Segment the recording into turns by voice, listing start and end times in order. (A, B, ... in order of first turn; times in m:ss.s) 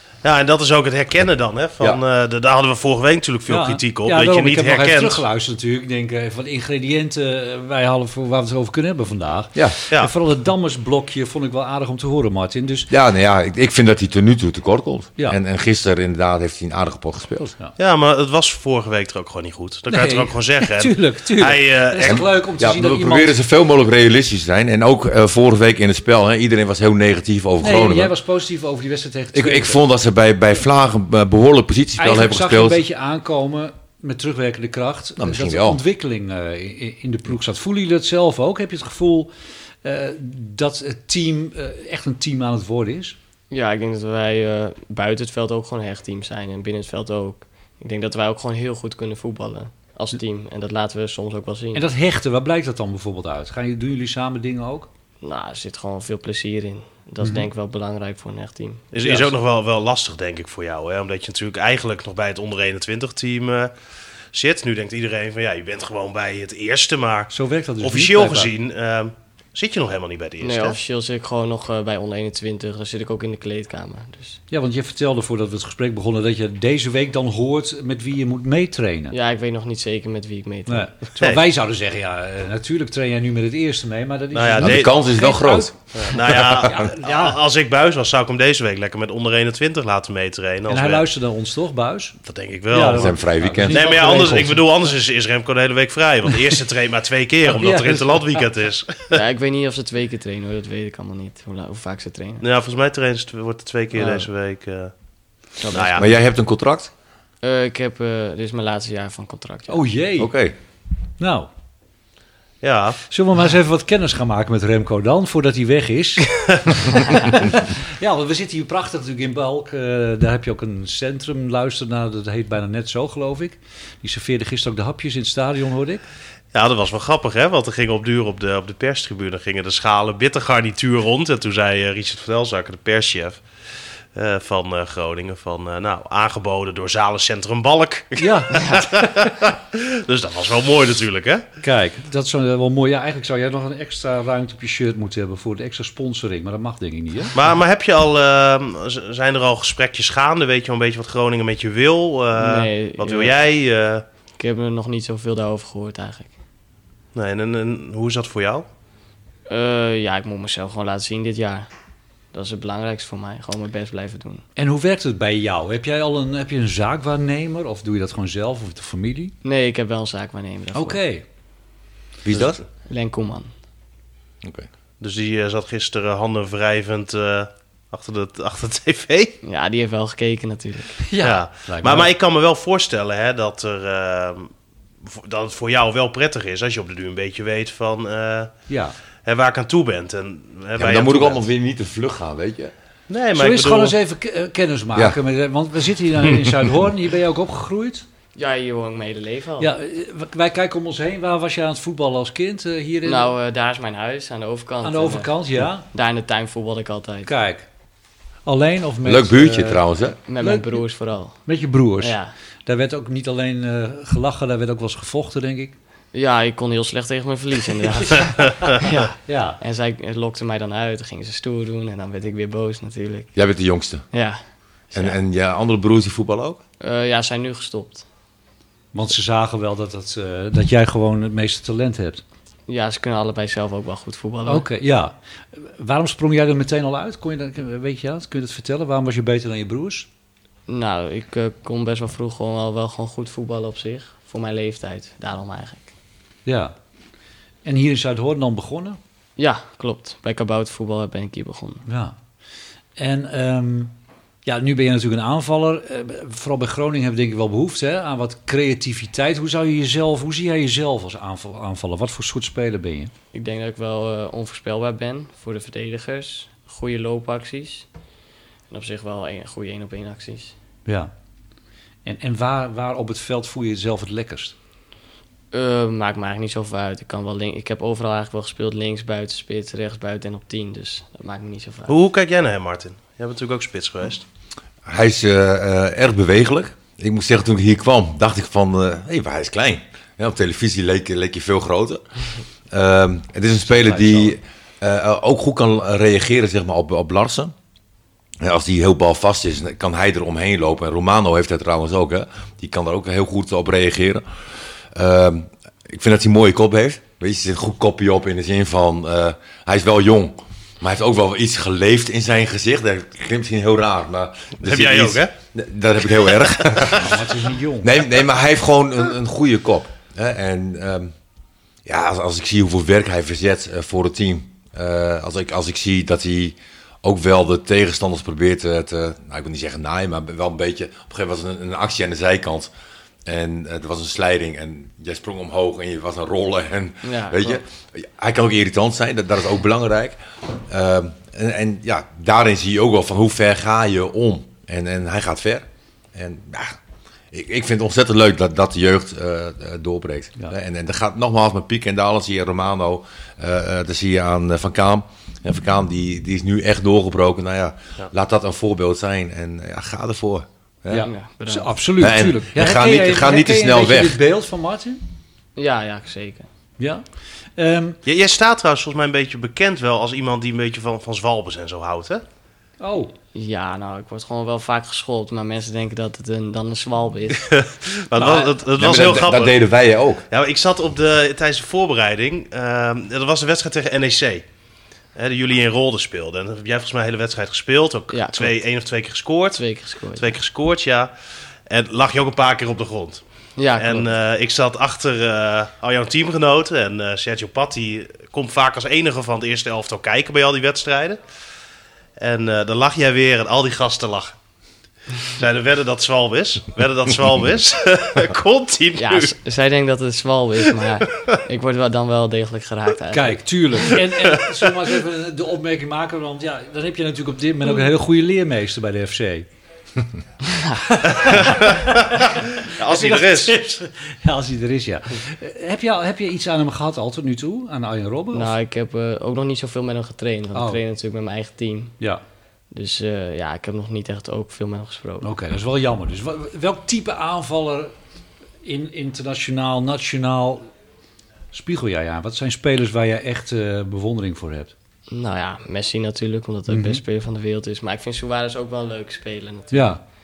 0:00.2-0:05.2 A
0:03.5-0:12.9 B
0:12.9-0:17.5 C
0:17.8-0:22.2 A
0:19.9-0:23.4 B
0:22.0-0:28.1 C
0:27.6-0:29.8 B
0:29.3-0:32.8 C
0:32.0-0:39.3 B
0:35.2-0:35.8 C
0:39.8-0:43.2 B
0:43.5-0:51.8 D
0:51.7-0:54.9 B
0:55.2-0:58.9 D
0:57.2-0:57.5 B
0:58.9-1:03.7 A
0:59.0-0:59.3 B
1:04.3-1:10.8 A
1:07.3-1:08.5 B
1:10.4-1:14.4 D
1:14.5-1:19.1 B
1:19.1-1:20.9 D
1:20.7-1:27.4 B
1:24.3-1:25.0 A
1:24.6-1:25.7 C
1:25.9-1:31.0 A
1:26.3-1:26.8 C
1:30.7-1:32.2 B
1:32.2-1:33.2 A
1:32.7-1:34.6 B
1:32.9-1:33.9 C
1:33.7-1:39.2 A
1:37.5-1:38.4 B
1:39.1-1:42.4 D
1:42.4-1:44.9 A
1:43.9-1:44.3 D
1:45.6-1:46.1 D
1:45.7-1:46.1 A
1:45.9-1:46.9 C
1:47.4-1:49.8 D
1:49.7-1:50.3 B
1:50.2-1:50.5 C
1:51.2-1:51.5 B
1:52.6-1:53.0 A
1:53.1-2:06.0 B
2:06.5-2:13.4 A
2:14.1-2:21.4 A
2:18.2-2:18.8 B
2:21.6-2:27.3 B
2:27.3-2:34.0 A
2:32.3-2:33.3 D
2:34.4-2:36.3 D
2:37.1-2:38.6 A
2:39.5-2:41.7 D
2:42.3-2:44.4 D
2:44.6-2:49.3 B
2:49.4-2:51.0 D
2:50.7-2:51.2 B
2:52.2-2:52.6 C
2:52.8-2:53.5 D
2:55.0-2:59.4 A
2:59.4-3:01.0 D
3:01.0-3:02.1 B
3:01.2-3:04.5 A
3:05.0-3:08.5 A
3:08.7-3:08.9 B
3:09.2-3:11.4 A
3:10.8-3:12.7 C
3:13.1-3:14.0 A
3:13.3-3:18.0 B
3:18.4-3:19.7 D
3:19.6-3:23.3 B
3:23.0-3:25.3 D
3:24.8-3:25.9 B
3:25.9-3:27.3 D
3:27.2-3:27.6 B
3:28.4-3:29.8 B
3:29.0-3:30.2 C
3:30.3-3:31.4 D
3:30.4-3:30.8 B
3:31.4-3:35.8 B
3:32.0-3:32.3 D
3:36.1-3:43.3 D
3:39.2-3:39.6 B
3:43.3-3:44.0 C
3:44.1-3:44.4 D
3:44.9-3:45.2 D
3:44.9-3:46.6 C
3:46.8-3:48.0 D
3:48.9-3:52.2 B
3:52.7-3:54.6 D
3:54.4-4:00.1 B
4:00.7-4:05.9 D
4:06.4-4:06.7 B
4:07.6-4:09.0 B
4:09.4-4:11.8 D
4:11.9-4:12.2 B
4:13.0-4:13.9 B
4:14.4-4:23.1 B
4:23.3-4:27.8 D
4:28.7-4:30.5 D
4:32.0-4:34.5 B
4:35.5-4:41.9 D
4:41.9-4:44.2 A
4:44.8-4:52.0 C
4:52.7-4:57.5 C
4:53.6-4:54.4 B
4:58.4-5:04.2 C
5:04.9-5:17.1 C
5:14.6-5:15.3 A
5:16.3-5:16.9 A
5:16.9-5:18.0 B
5:17.8-5:21.1 C
5:21.8-5:32.7 C
5:33.2-5:46.8 C
5:37.0-5:37.6 D
5:47.3-6:01.1 C
6:00.9-6:05.0 B
6:01.0-6:01.7 D
6:02.0-6:04.2 C
6:05.6-6:06.5 D
6:06.8-6:07.0 B
6:07.6-6:08.0 B
6:08.0-6:12.2 A
6:12.8-6:13.1 B
6:13.3-6:17.5 D
6:17.4-6:19.6 A
6:18.6-6:20.2 C
6:20.3-6:24.4 A
6:25.2-6:29.6 A
6:28.1-6:28.6 D
6:29.5-6:30.3 D
6:30.2-6:31.1 A
6:31.7-6:33.2 A
6:33.6-6:34.1 D
6:33.8-6:41.2 A
6:42.2-6:44.4 A
6:45.4-6:49.3 A
6:49.0-6:53.9 D
6:53.1-6:59.4 B
7:00.4-7:01.0 D
7:00.9-7:08.5 B
7:01.3-7:03.5 A
7:08.3-7:11.9 D
7:10.5-7:10.8 B
7:12.7-7:15.3 D
7:15.2-7:17.9 B
7:18.6-7:20.6 B
7:21.5-7:24.7 B
7:25.1-7:30.0 D
7:26.7-7:27.0 B
7:29.7-7:30.0 B